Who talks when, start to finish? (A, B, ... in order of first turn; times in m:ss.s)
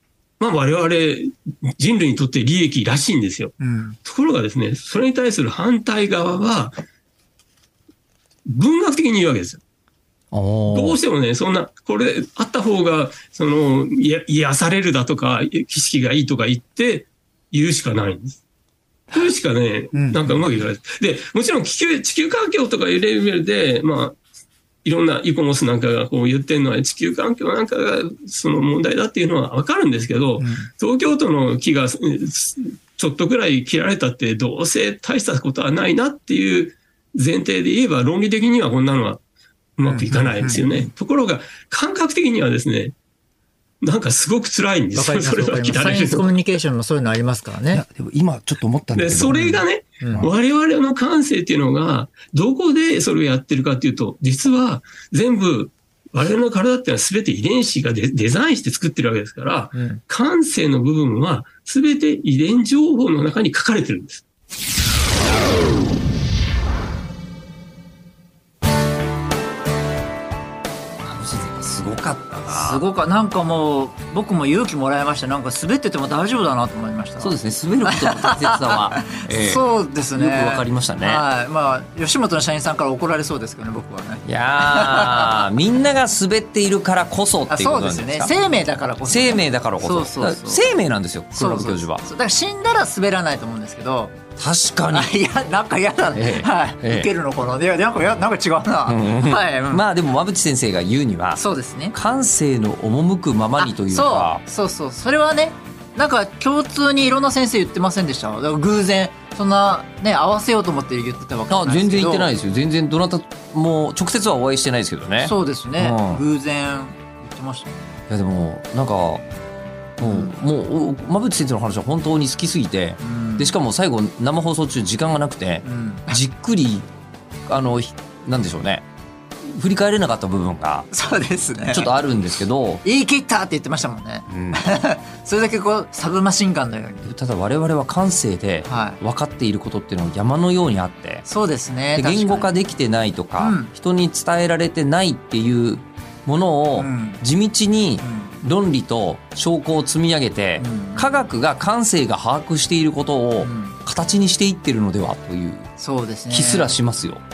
0:00.4-0:06.8 A
0:03.6-0:04.0 B
0:08.4-0:09.6 A
0:10.3-0:11.0 C
0:10.7-0:18.4 A
0:19.1-0:24.2 A
0:19.9-0:20.2 B
0:24.8-0:39.2 A
0:30.4-0:30.7 B
0:39.8-0:42.9 A
0:40.2-0:40.6 B
0:43.8-0:46.3 A
0:44.9-0:47.8 B
0:47.7-0:50.3 C
0:48.9-1:04.2 A
0:59.7-1:00.0 B
1:11.0-1:12.8 C
1:12.5-1:25.4 B
1:17.2-1:21.2 C
1:24.2-1:28.3 C
1:27.5-1:30.6 B
1:29.0-1:32.0 C
1:31.3-1:34.2 B
1:34.4-1:35.1 C
1:34.9-1:39.8 B
1:36.1-1:37.1 C
1:38.9-1:41.4 C
1:41.4-1:42.0 B
1:41.9-1:44.4 C
1:43.6-1:52.3 B
1:51.5-1:56.2 C
1:55.2-1:58.0 B
1:58.1-1:59.2 C
2:00.0-2:06.9 C
2:00.0-2:00.3 B
2:03.0-2:03.5 B
2:05.6-2:06.2 B
2:07.5-2:08.8 C
2:09.4-2:10.9 C
2:10.9-2:11.9 B
2:11.7-2:12.8 C
2:12.8-2:17.1 B
2:14.3-2:14.6 C
2:17.0-2:21.2 C
2:18.7-2:19.0 B
2:21.2-2:22.5 B
2:21.9-2:35.7 C
2:23.4-2:23.7 B
2:26.8-2:27.2 B
2:28.0-2:28.3 B
2:30.6-2:31.2 B
2:33.4-2:33.8 B
2:35.8-2:36.7 B
2:36.3-2:37.2 C